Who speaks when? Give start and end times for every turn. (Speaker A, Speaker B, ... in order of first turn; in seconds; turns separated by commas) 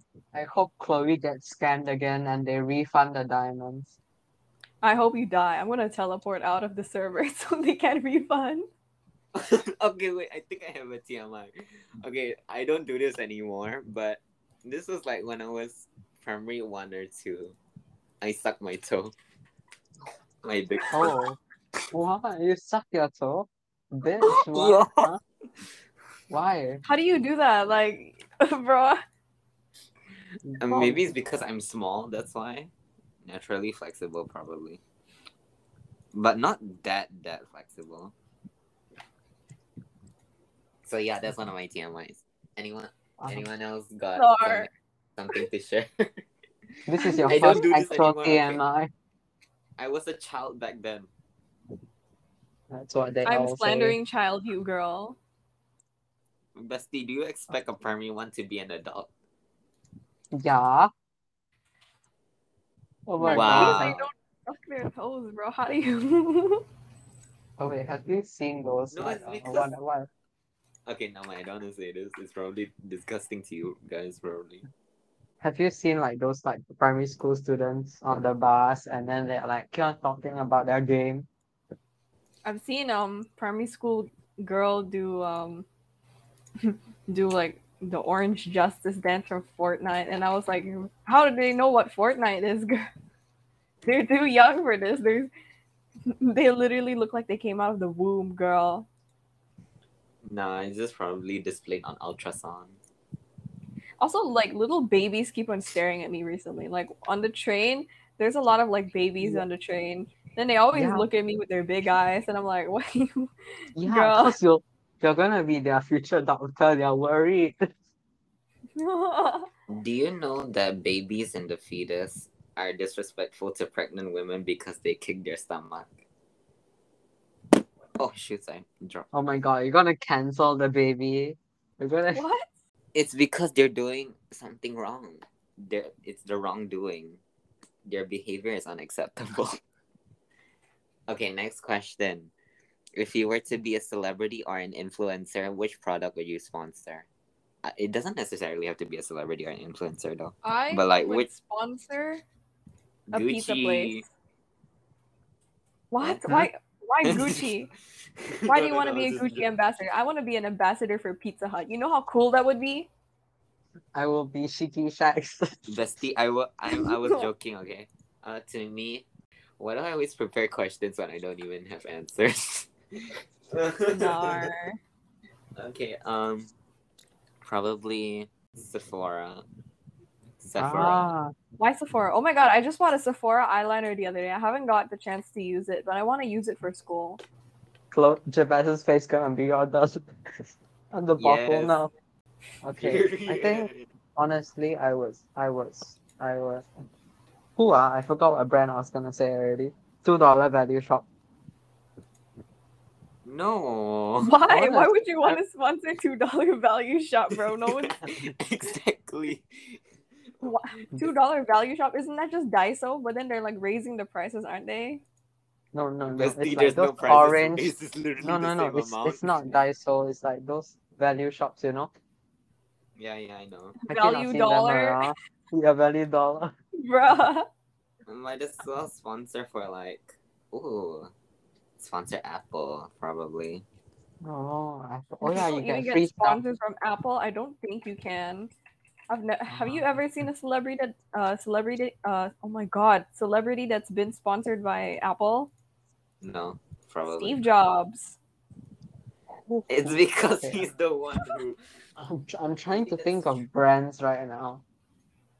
Speaker A: 0.3-3.9, Speaker B: 4.8-8.7, Speaker C: 9.3-17.6, Speaker C: 18.2-19.1, Speaker C: 20.4-21.1, Speaker A: 20.9-21.4, Speaker A: 21.9-25.2, Speaker C: 24.2-25.1, Speaker A: 26.3-26.8, Speaker B: 26.8-29.0, Speaker A: 30.5-31.0, Speaker C: 30.6-32.7, Speaker C: 33.2-34.8, Speaker C: 36.1-38.1, Speaker C: 40.8-46.2, Speaker A: 43.2-43.5, Speaker B: 44.1-44.7, Speaker A: 46.9-48.9, Speaker B: 47.0-47.6, Speaker C: 47.3-48.6, Speaker C: 49.8-51.1, Speaker A: 52.7-54.0, Speaker B: 53.2-55.2, Speaker C: 56.5-59.1, Speaker A: 60.3-60.9, Speaker A: 63.1-64.0, Speaker B: 63.2-66.6, Speaker C: 63.3-64.0, Speaker A: 67.6-70.1, Speaker C: 68.9-69.7, Speaker C: 70.9-74.6, Speaker A: 75.4-81.3, Speaker B: 82.4-85.7, Speaker B: 86.6-92.8, Speaker B: 93.8-95.3, Speaker B: 96.1-98.9, Speaker C: 100.2-102.8, Speaker B: 104.0-113.3, Speaker A: 110.7-111.0, Speaker A: 113.8-117.7, Speaker B: 113.8-114.3, Speaker B: 118.8-119.5, Speaker C: 119.7-125.9, Speaker C: 128.0-129.1, Speaker A: 129.1-132.2, Speaker B: 132.1-132.5, Speaker C: 132.9-137.2, Speaker C: 137.8-139.6, Speaker C: 141.1-142.3, Speaker C: 142.9-147.1, Speaker C: 147.6-151.3, Speaker B: 150.4-152.2, Speaker C: 153.1-154.1, Speaker B: 153.1-154.1, Speaker B: 155.9-157.7, Speaker C: 157.1-157.4, Speaker C: 158.3-159.4, Speaker B: 158.5-162.9, Speaker A: 163.9-165.6, Speaker C: 165.7-169.1, Speaker B: 166.8-167.2, Speaker C: 169.6-174.5, Speaker B: 173.9-174.8, Speaker C: 175.6-176.5, Speaker C: 177.4-179.4, Speaker C: 180.4-181.1, Speaker A: 180.6-181.3, Speaker B: 181.6-187.2, Speaker A: 187.9-190.0, Speaker A: 190.9-191.9, Speaker C: 191.2-191.8, Speaker A: 192.6-196.7, Speaker C: 192.8-193.9, Speaker A: 197.6-201.1, Speaker C: 203.2-204.3, Speaker B: 204.2-208.0, Speaker A: 204.5-205.4, Speaker C: 207.7-209.8, Speaker B: 210.4-215.0, Speaker A: 215.7-221.9, Speaker C: 216.2-219.6, Speaker C: 223.0-223.8, Speaker B: 223.9-225.1, Speaker A: 223.9-226.5, Speaker B: 226.8-227.4, Speaker C: 228.1-231.1, Speaker C: 231.8-233.6, Speaker A: 234.2-236.4, Speaker B: 235.2-238.5, Speaker B: 239.1-245.5, Speaker A: 239.5-239.8, Speaker C: 246.2-247.4, Speaker B: 247.1-248.2, Speaker A: 249.4-250.7, Speaker C: 249.7-251.6, Speaker A: 252.0-254.6, Speaker C: 252.7-253.4